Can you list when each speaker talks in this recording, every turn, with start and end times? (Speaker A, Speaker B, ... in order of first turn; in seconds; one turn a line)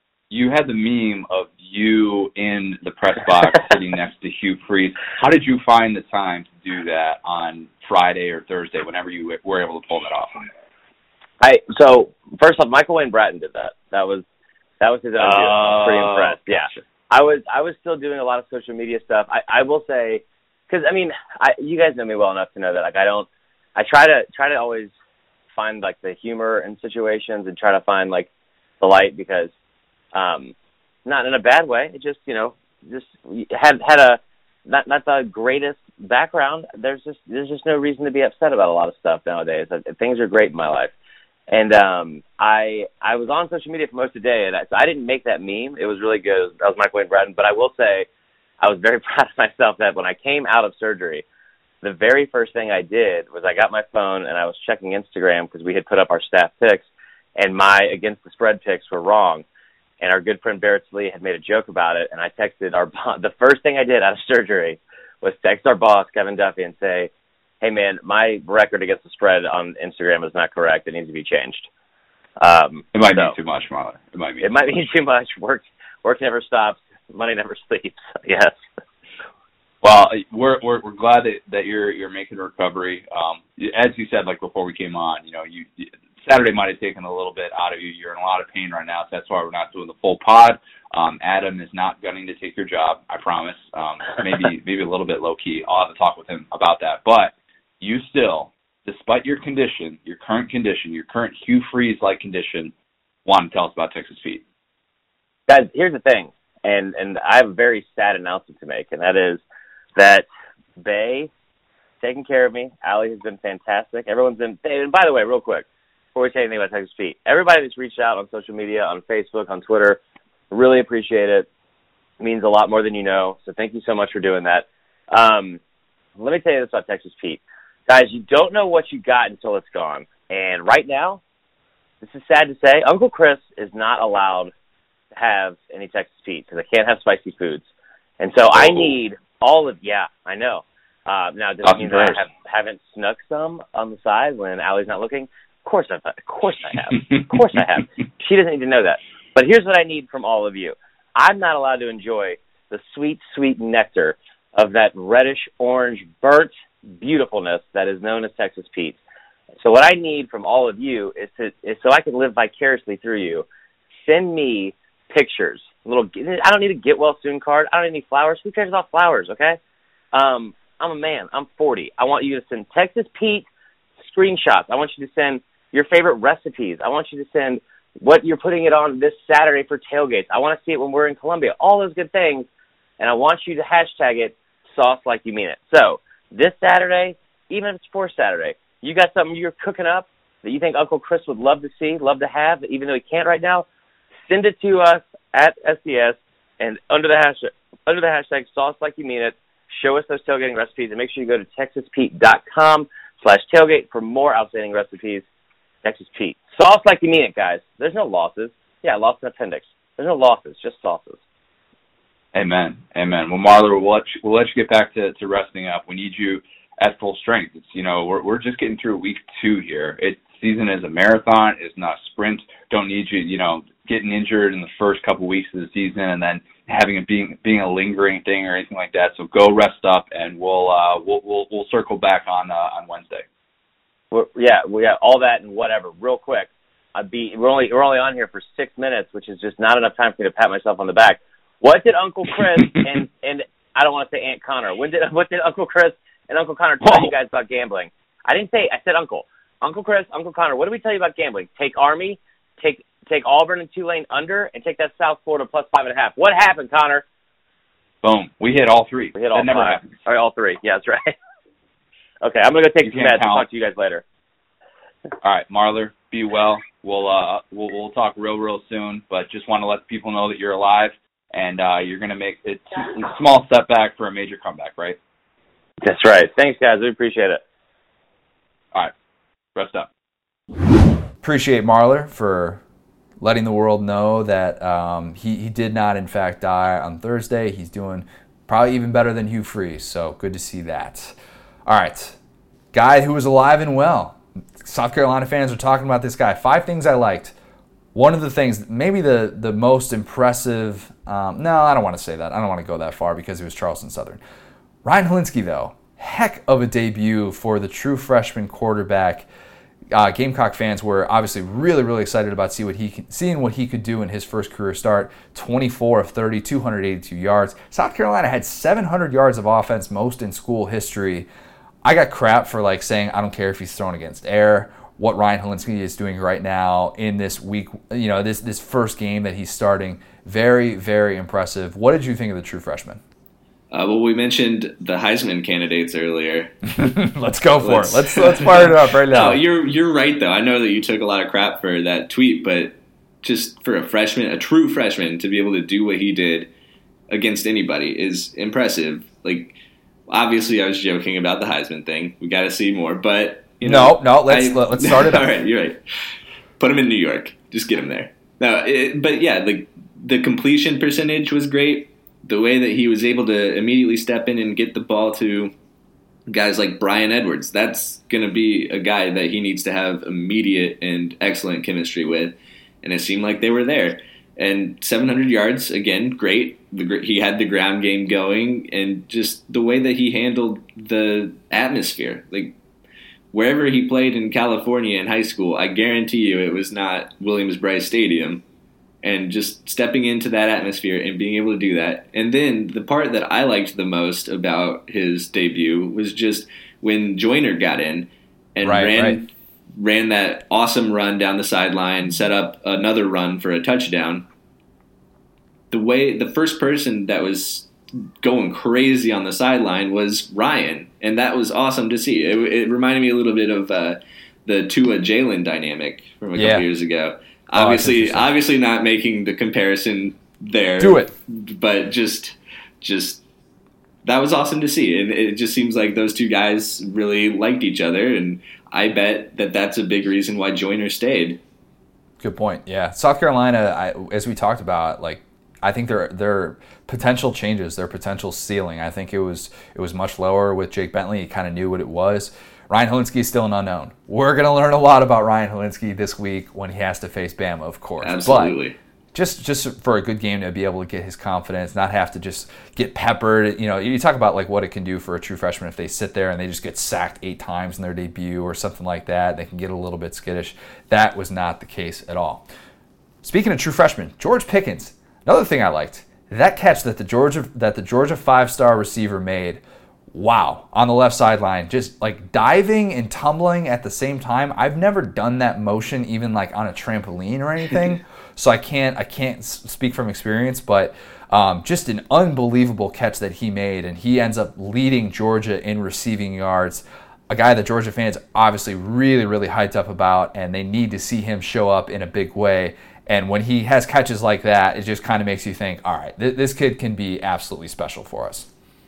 Speaker A: 0.3-10.5
Speaker B: 11.4-14.2
Speaker B: 14.8-24.9
Speaker A: 15.2-16.8
Speaker B: 25.5-28.3
Speaker B: 28.8-29.5
Speaker B: 30.1-30.5
Speaker B: 31.1-40.9
Speaker B: 41.5-48.1
Speaker B: 48.6-51.2
Speaker B: 51.8-59.4
Speaker B: 60.0-71.7
Speaker B: 72.4-73.3
Speaker A: 72.9-74.6
Speaker B: 74.4-78.5
Speaker A: 79.8-102.7
Speaker A: 103.2-104.4
Speaker B: 105.5-109.4
Speaker B: 110.0-110.2
Speaker B: 110.8-111.3
Speaker B: 112.0-121.5
Speaker B: 122.2-125.6
Speaker B: 126.2-131.2
Speaker B: 132.0-134.5
Speaker B: 135.1-137.6
Speaker B: 138.2-159.0
Speaker A: 138.6-138.9
Speaker A: 141.6-142.2
Speaker B: 159.6-163.4
Speaker B: 164.1-169.6
Speaker B: 170.1-173.4
Speaker B: 174.0-182.4
Speaker B: 183.0-193.7
Speaker B: 194.3-205.2
Speaker B: 205.8-211.2
Speaker A: 212.3-233.2
Speaker B: 234.1-257.0
Speaker A: 246.8-247.1
Speaker A: 258.0-259.9
Speaker B: 259.1-261.1
Speaker B: 262.2-264.0
Speaker A: 262.8-263.4
Speaker A: 265.2-275.0
Speaker B: 275.8-277.4
Speaker A: 279.5-279.9
Speaker C: 281.2-282.6
Speaker C: 283.2-291.1
Speaker C: 291.6-292.2
Speaker C: 292.7-297.3
Speaker C: 297.9-304.2
Speaker C: 304.8-309.3
Speaker C: 309.9-321.3
Speaker C: 321.8-333.0
Speaker D: 333.7-336.6
Speaker C: 336.7-339.4
Speaker D: 337.6-346.5
Speaker D: 347.1-349.6
Speaker D: 350.1-355.8
Speaker C: 353.6-355.3
Speaker D: 356.6-365.5
Speaker D: 366.3-382.5
Speaker D: 383.3-388.4
Speaker D: 389.0-404.2
Speaker C: 398.6-399.2
Speaker D: 405.7-407.7
Speaker D: 408.2-423.2
Speaker C: 416.4-416.6
Speaker C: 417.5-418.2
Speaker C: 420.8-421.1
Speaker D: 424.0-431.4
Speaker C: 432.2-448.6
Speaker D: 448.0-448.8
Speaker C: 449.1-462.4
Speaker C: 463.2-498.5